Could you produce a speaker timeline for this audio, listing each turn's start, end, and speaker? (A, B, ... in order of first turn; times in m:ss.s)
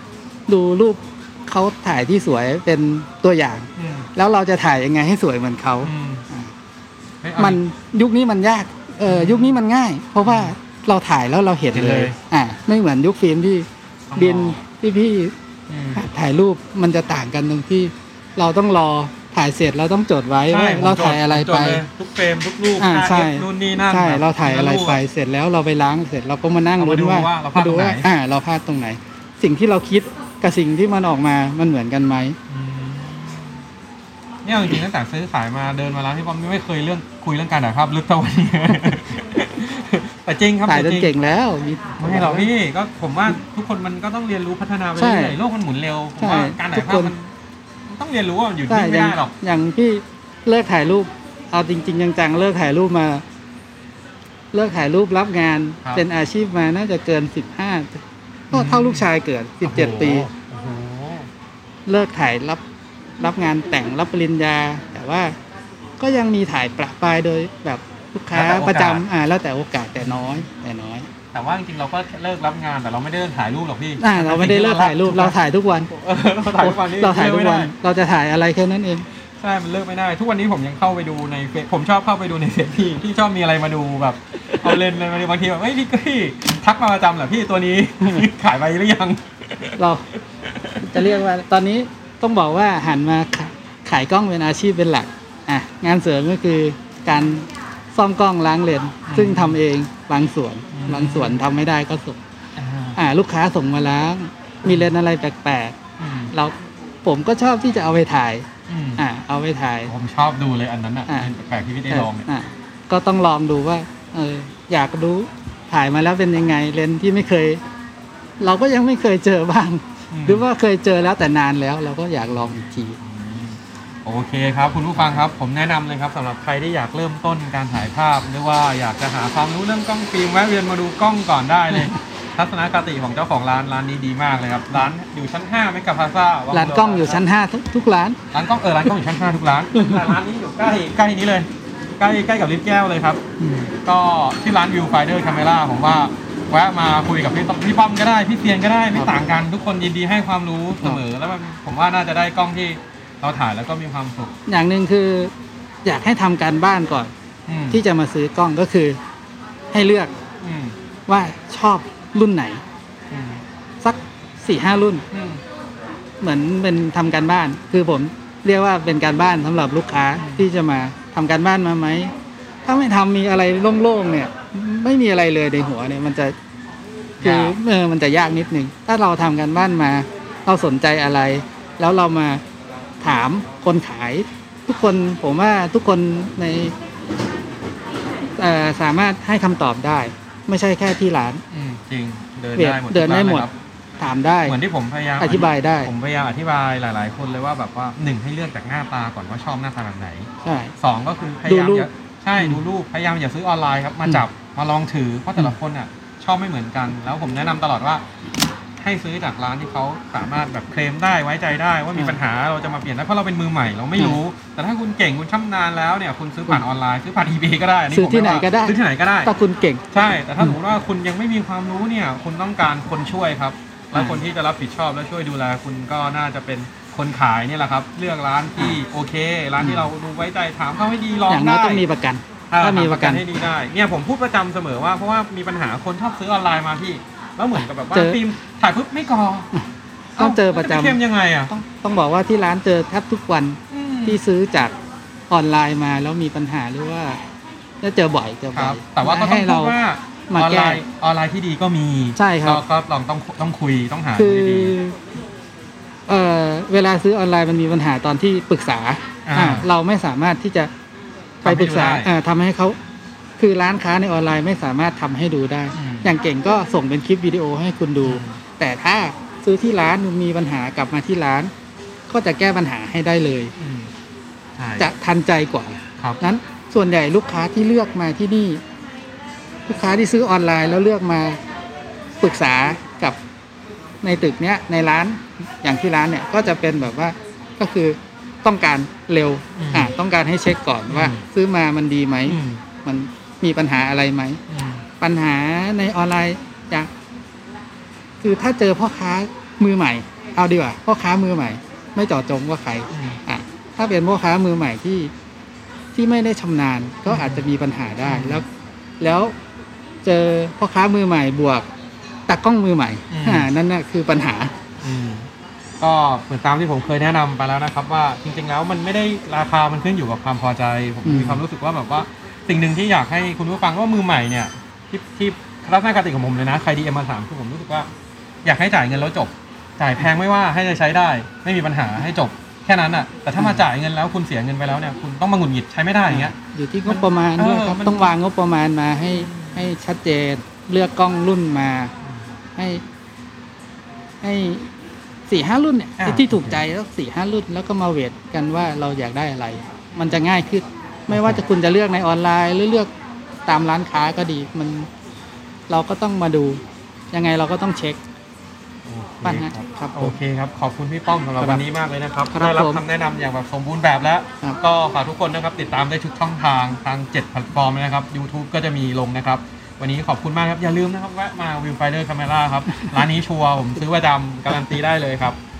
0:00.5-0:06.5 A
0:03.8-0:04.1 B
0:05.8-0:06.2 B
0:07.2-0:07.6 B
0:07.4-0:15.3 A
0:09.0-0:09.6 B
0:10.2-0:10.5 B
0:11.7-0:12.2 B
0:14.1-0:14.6 B
0:15.7-0:16.0 B
0:15.9-0:21.8 A
0:20.5-0:25.0 B
0:22.8-0:32.4 A
0:26.8-0:28.1 B
0:32.5-0:33.6 B
0:34.4-0:41.1 B
0:40.6-0:42.5 A
0:42.0-0:47.3 B
0:45.0-0:45.4 A
0:46.2-0:47.1 A
0:47.8-0:49.3 B
0:48.7-0:53.2 A
0:54.5-1:00.3 A
0:58.5-0:59.1 B
0:59.6-1:01.3 B
1:01.9-1:02.6 A
1:03.2-1:05.3 A
1:06.0-1:11.1 A
1:08.3-1:09.0 B
1:10.0-1:10.4 B
1:11.3-1:15.3 B
1:14.0-1:15.9 A
1:15.9-1:17.7 B
1:16.5-1:19.0 A
1:19.4-1:31.2 B
1:29.8-1:30.0 A
1:30.8-1:42.2 A
1:39.0-1:39.6 B
1:40.7-1:41.4 B
1:42.6-1:43.0 B
1:43.0-1:45.7 A
1:44.6-1:44.9 B
1:46.0-1:46.3 B
1:46.3-1:49.9 A
1:48.7-1:49.0 B
1:49.9-1:52.3 B
1:51.9-1:57.6 A
1:58.4-2:03.0 A
2:00.1-2:00.5 B
2:03.0-2:17.2 B
2:11.7-2:12.0 A
2:16.5-2:18.2 A
2:18.3-2:23.2 B
2:19.7-2:20.1 A
2:23.4-2:23.7 A
2:23.8-2:34.3 B
2:34.5-2:35.3 A
2:35.8-2:37.1 A
2:37.5-2:37.8 B
2:37.7-2:39.0 A
2:39.7-2:40.1 A
2:40.4-2:40.8 B
2:41.1-2:42.6 A
2:43.1-2:43.4 B
2:43.8-2:45.0 A
2:45.1-2:45.4 B
2:46.2-2:52.1 A
2:50.2-2:50.5 B
2:52.6-2:56.3 A
2:57.2-2:57.6 B
2:57.2-3:02.4 A
3:03.0-3:06.7 A
3:08.4-3:11.4 A
3:11.5-3:13.5 B
3:12.6-3:13.5 A
3:14.0-3:14.6 A
3:14.4-3:28.0 B
3:15.2-3:15.9 A
3:20.4-3:20.7 A
3:21.4-3:21.9 A
3:28.8-3:39.3 B
3:37.9-3:39.8 A
3:39.9-3:51.8 B
3:43.9-3:44.2 A
3:49.6-3:49.8 A
3:51.3-3:53.2 A
3:52.5-3:59.5 B
4:00.2-4:01.5 B
4:00.2-4:01.0 A
4:01.5-4:04.7 A
4:03.7-4:04.2 B
4:05.3-4:07.2 A
4:07.8-4:09.8 A
4:08.5-4:14.8 B
4:10.3-4:10.8 A
4:12.2-4:12.6 A
4:14.2-4:15.0 A
4:16.1-4:20.7 A
4:19.2-4:19.7 B
4:21.4-4:22.1 B
4:21.4-4:22.8 A
4:23.4-4:31.5 A
4:25.7-4:26.1 B
4:28.0-4:28.4 B
4:32.1-4:33.5 A
4:33.6-4:33.9 B
4:34.6-4:34.9 B
4:34.8-4:38.6 A
4:39.6-4:41.4 A
4:42.2-4:43.2 A
4:44.0-4:54.4 A
4:49.6-4:49.9 B
4:50.9-4:51.2 B
4:52.2-4:52.6 B
4:54.5-4:54.8 B
4:55.0-4:56.9 A
4:58.2-5:05.1 A
5:02.9-5:03.2 B
5:05.9-5:08.5 A
5:07.0-5:07.4 B
5:08.0-5:08.4 B
5:09.0-5:09.3 A
5:10.0-5:11.7 A
5:12.3-5:14.5 A
5:13.1-5:13.5 B
5:14.8-5:27.9 B
5:21.0-5:21.4 A
5:28.4-5:36.3 B
5:36.1-5:41.9 A
5:36.8-5:38.1 B
5:39.1-5:39.7 B
5:42.6-5:42.8 A
5:44.2-5:44.7 A
5:45.3-5:52.9 A
5:46.0-5:46.6 B
5:51.1-5:51.4 B
5:53.5-5:54.9 A
5:55.7-5:56.6 A
5:57.1-5:58.0 A
5:58.8-6:15.4 B
5:59.2-6:00.2 A
6:02.3-6:02.8 A